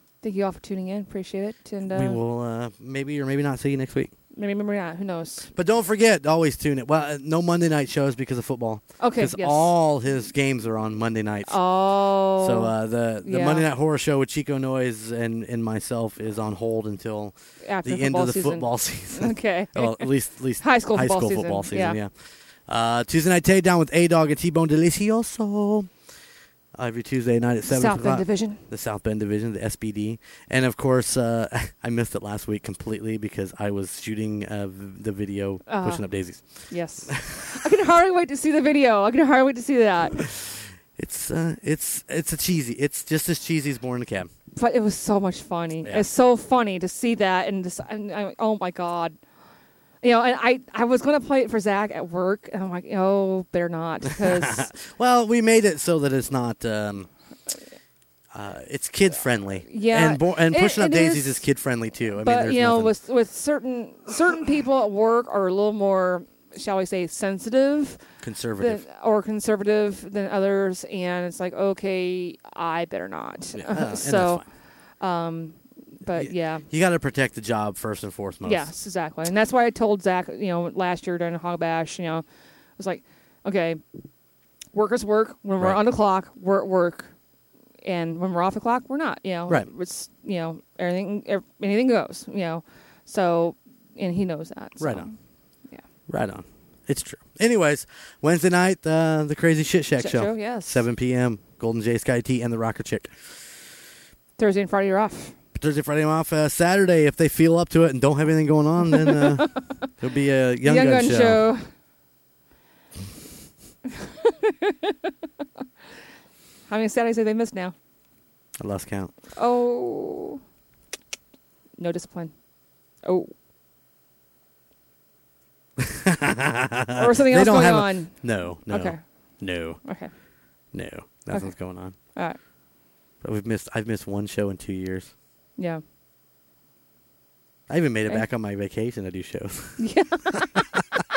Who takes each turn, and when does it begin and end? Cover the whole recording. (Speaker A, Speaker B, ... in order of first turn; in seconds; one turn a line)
Speaker A: 0.2-2.2
Speaker B: 1.9-4.1
Speaker A: 4.3-5.5
Speaker B: 5.5-26.0
Speaker A: 9.0-9.7
Speaker A: 11.5-13.7
Speaker A: 17.6-20.1
Speaker A: 20.6-22.0
Speaker B: 26.8-37.6
Speaker A: 27.7-28.6
Speaker A: 35.7-36.0
Speaker A: 36.7-40.2
Speaker B: 40.2-44.3
Speaker A: 44.5-49.2
Speaker A: 50.0-54.7
Speaker B: 54.2-57.1
Speaker B: 58.3-63.0
Speaker A: 59.7-61.5
Speaker A: 62.2-68.0
Speaker B: 68.2-68.8
Speaker A: 68.6-74.4
Speaker B: 73.5-74.5
Speaker A: 75.0-76.7
Speaker B: 76.1-78.7
Speaker A: 78.4-82.2
Speaker A: 82.8-83.8
Speaker A: 84.7-87.1
Speaker A: 87.8-95.2
Speaker B: 94.8-95.1
Speaker B: 96.1-103.2
Speaker A: 100.0-100.8
Speaker A: 104.4-105.3
Speaker B: 105.5-111.5
Speaker A: 108.9-109.4
Speaker A: 110.6-111.7
Speaker A: 114.0-114.9
Speaker A: 116.7-117.8
Speaker B: 118.6-119.1
Speaker A: 119.3-120.4
Speaker A: 121.8-122.3
Speaker A: 123.0-123.3
Speaker B: 125.8-129.9
Speaker A: 127.0-130.1
Speaker B: 130.7-131.9
Speaker A: 131.3-132.4
Speaker B: 133.2-135.1
Speaker A: 135.6-135.8
Speaker B: 137.7-140.8
Speaker A: 139.8-140.5